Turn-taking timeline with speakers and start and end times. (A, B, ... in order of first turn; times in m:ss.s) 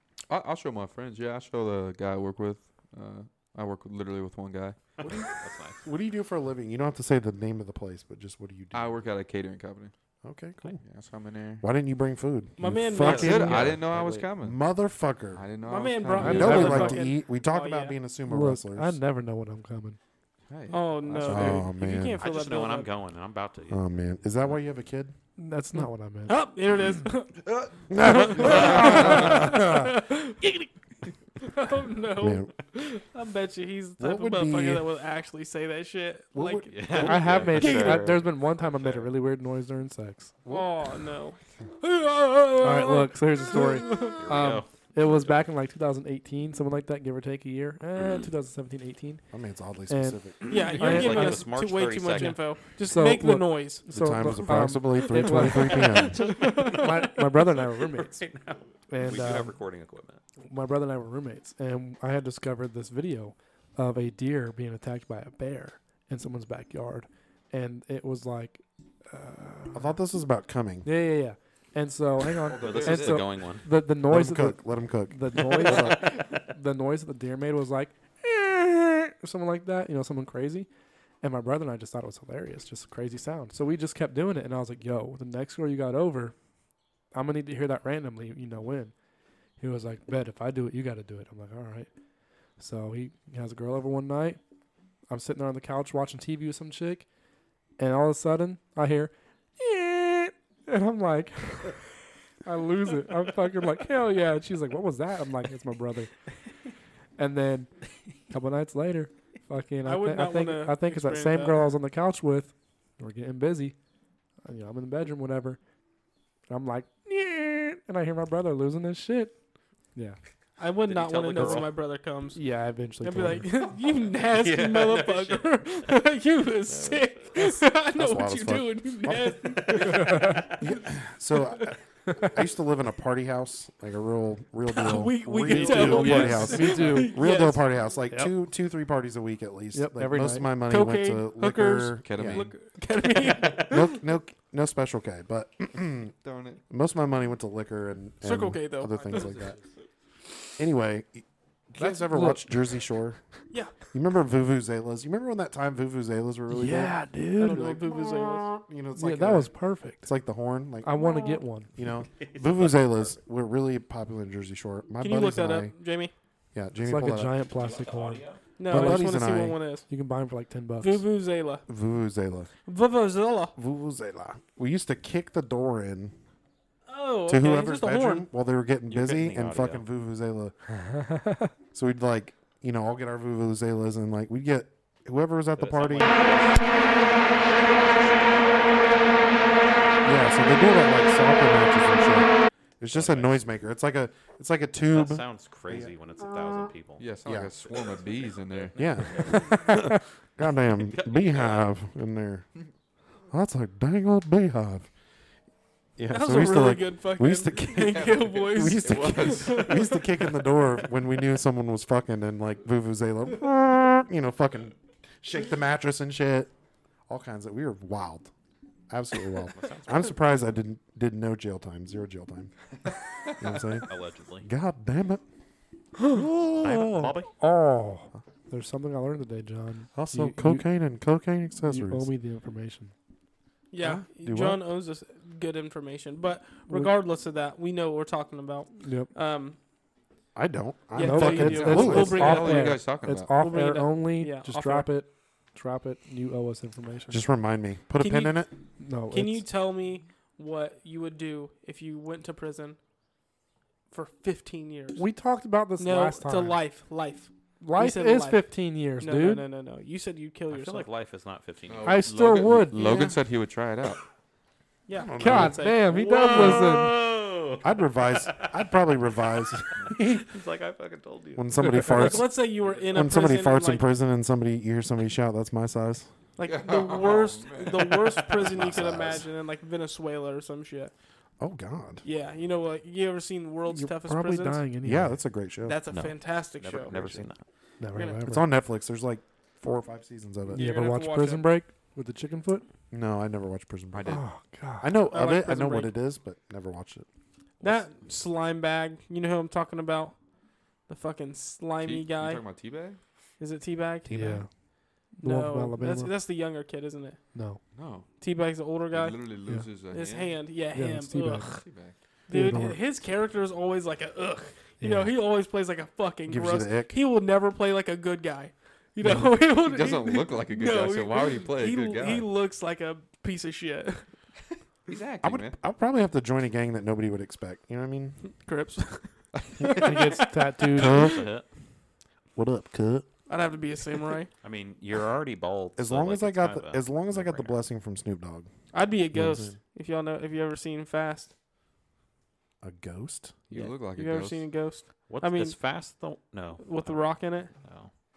0:00.3-0:04.8 A
0:05.0-0:05.8 B
0:05.8-0:09.0 C
0:08.7-0:09.9 A
0:10.2-0:10.8 C
0:10.8-0:11.6 A
0:11.6-0:15.5 C
0:12.6-0:13.7 D
0:13.0-0:14.1 B
0:13.1-0:14.6 A
0:15.3-0:16.9 A
0:15.6-0:18.0 D
0:16.2-0:17.0 E
0:16.2-0:19.0 C
0:18.3-0:20.0 E
0:20.5-0:21.6 A
0:20.7-0:22.9 D
0:21.2-0:22.2 C
0:22.2-0:23.8 B
0:23.7-0:25.1 C
0:25.4-0:26.4 E
0:26.3-0:30.7 D
0:27.9-0:30.0 C
0:28.5-0:29.2 A
0:31.4-0:38.0 D
0:32.2-0:32.5 C
0:34.0-0:34.8 C
0:36.3-0:38.2 C
0:36.7-0:39.1 B
0:37.0-0:40.3 E
0:40.4-0:44.2 D
0:42.6-0:49.2 E
0:44.0-0:45.3 B
0:49.3-0:50.5 C
0:49.9-0:51.4 E
0:50.5-0:53.8 D
0:50.7-0:52.4 B
0:52.2-0:58.2 E
0:53.9-0:56.4 C
0:55.2-0:57.2 D
0:56.3-0:56.7 B
0:58.1-1:00.2 B
0:58.9-0:59.5 E
1:00.4-1:09.9 E
1:09.7-1:10.9 C
1:10.8-1:20.7 E
1:12.4-1:13.2 A
1:12.6-1:13.6 B
1:14.1-1:16.0 C
1:15.6-1:16.4 B
1:21.2-1:26.3 E
1:27.1-1:28.9 E
1:29.6-1:31.9 E
1:32.6-1:34.4 E
1:35.1-1:37.0 E
1:37.8-1:46.2 E
1:47.2-1:47.7 E
1:48.3-1:53.8 E
1:49.8-1:51.7 D
1:54.4-1:55.6 E
1:56.5-1:59.4 E
1:59.9-2:00.2 E
2:00.6-2:02.4 D
2:00.8-2:01.7 B
2:02.3-2:03.5 E
2:03.0-2:10.5 D
2:03.8-2:05.7 B
2:06.7-2:07.6 B
2:07.9-2:22.5 C
2:09.8-2:10.3 B
2:10.0-2:10.4 E
2:14.7-2:17.8 D
2:15.5-2:17.2 E
2:15.7-2:16.6 A
2:18.1-2:18.3 E
2:19.7-2:20.5 E
2:20.7-2:24.0 D
2:22.0-2:22.6 A
2:23.4-2:26.1 C
2:26.2-2:26.6 A
2:26.7-2:29.6 C
2:28.2-2:29.5 D
2:29.0-2:29.6 A
2:30.6-2:33.2 C
2:31.8-2:32.5 E
2:33.5-2:33.8 D
2:33.9-2:45.7 C
2:36.5-2:37.6 E
2:37.4-2:38.5 D
2:39.0-2:40.1 E
2:40.8-2:41.7 E
2:42.2-2:43.2 B
2:45.0-2:46.1 D
2:46.5-2:47.3 C
2:46.8-2:49.1 E
2:47.6-2:48.4 B
2:48.6-2:49.9 D
2:48.7-2:49.6 C
2:49.9-2:51.0 E
2:50.8-2:51.6 D
2:51.7-2:52.5 C
2:52.7-2:53.5 D
2:53.6-2:56.2 C
2:56.9-2:58.2 D
2:57.3-3:00.5 C
2:58.9-2:59.8 B
3:00.8-3:01.5 E
3:01.7-3:06.2 C
3:05.6-3:09.9 B
3:10.0-3:16.7 C
3:12.9-3:13.4 B
3:14.9-3:17.0 B
3:17.0-3:19.2 A
3:17.2-3:17.5 C
3:17.6-3:19.4 B
3:18.8-3:22.5 C
3:19.5-3:20.0 E
3:20.9-3:21.7 B
3:23.3-3:24.9 C
3:26.0-3:36.5 C
3:26.1-3:30.6 D
3:27.9-3:29.8 A
3:37.1-3:38.3 C
3:38.9-3:42.5 C
3:39.5-3:40.2 B
3:43.4-3:43.9 C
3:43.8-3:44.5 B
3:44.4-3:45.2 C
3:46.1-3:47.1 C
3:46.6-3:47.3 B
3:47.4-3:50.7 E
3:49.9-3:52.1 C
3:51.6-3:52.9 E
3:53.7-3:59.6 D
3:53.8-3:54.6 C
3:58.8-3:59.1 E
4:00.3-4:02.5 C
4:00.9-4:02.8 D
4:01.0-4:07.2 E
4:01.6-4:03.4 A
4:03.4-4:04.9 D
4:07.1-4:08.5 C
4:08.0-4:08.4 D
4:08.8-4:09.4 E
4:09.1-4:12.8 D
4:13.9-4:15.0 D
4:14.9-4:16.6 E
4:15.8-4:20.9 D
4:17.6-4:19.4 E
4:20.5-4:22.0 B
4:21.7-4:24.0 A
4:21.8-4:23.1 E
4:22.8-4:23.1 C
4:24.9-4:26.6 D
4:24.9-4:25.7 C
4:25.2-4:26.9 E
4:26.0-4:28.7 B
4:27.6-4:30.3 C
4:29.7-4:31.8 B
4:31.3-4:32.4 C
4:31.6-4:32.2 E
4:31.8-4:33.8 D
4:32.6-4:33.1 B
4:32.9-4:36.1 C
4:36.4-4:40.9 D
4:36.4-4:38.8 A
4:38.4-4:39.2 C
4:41.4-4:42.0 C
4:42.0-4:44.6 D
4:43.7-4:45.2 E
4:44.8-4:45.8 C
4:45.6-4:47.2 D
4:45.9-4:47.4 B
4:47.8-4:48.5 E
4:47.9-4:48.2 D
4:48.2-4:50.7 C
4:50.5-4:51.5 D
4:50.5-4:52.6 E
4:52.9-4:54.2 C
4:53.9-4:54.2 A
4:54.0-4:54.9 E
4:54.8-4:57.1 C
4:55.1-4:55.9 D
4:57.6-5:00.2 D
5:00.9-5:02.4 D
5:01.8-5:03.0 A
5:03.4-5:04.2 D
5:04.0-5:04.4 C
5:04.1-5:04.5 E
5:05.2-5:06.1 E
5:05.2-5:07.2 D
5:07.3-5:07.6 E
5:07.7-5:08.1 A
5:08.2-5:09.3 D
5:08.9-5:10.6 A
5:09.9-5:11.6 D
5:10.7-5:11.6 E
5:11.5-5:12.0 A
5:12.3-5:24.1 D
5:12.3-5:12.8 E
5:14.8-5:15.1 E
5:16.3-5:17.0 C
5:19.0-5:19.3 E
5:19.5-5:22.3 A
5:24.9-5:25.6 A
5:25.2-5:28.2 C
5:28.3-5:31.0 D
5:29.3-5:29.8 A
5:29.8-5:31.1 E
5:30.7-5:31.2 C
5:30.8-5:31.4 B
5:32.3-5:33.0 C
5:33.3-5:34.3 D
5:34.4-5:37.6 B
5:35.8-5:38.5 C
5:38.7-5:41.3 D
5:39.1-5:39.6 C
5:42.6-5:43.4 C
5:43.5-5:44.5 A
5:43.5-5:45.6 D
5:45.1-5:47.9 B
5:46.6-5:47.5 D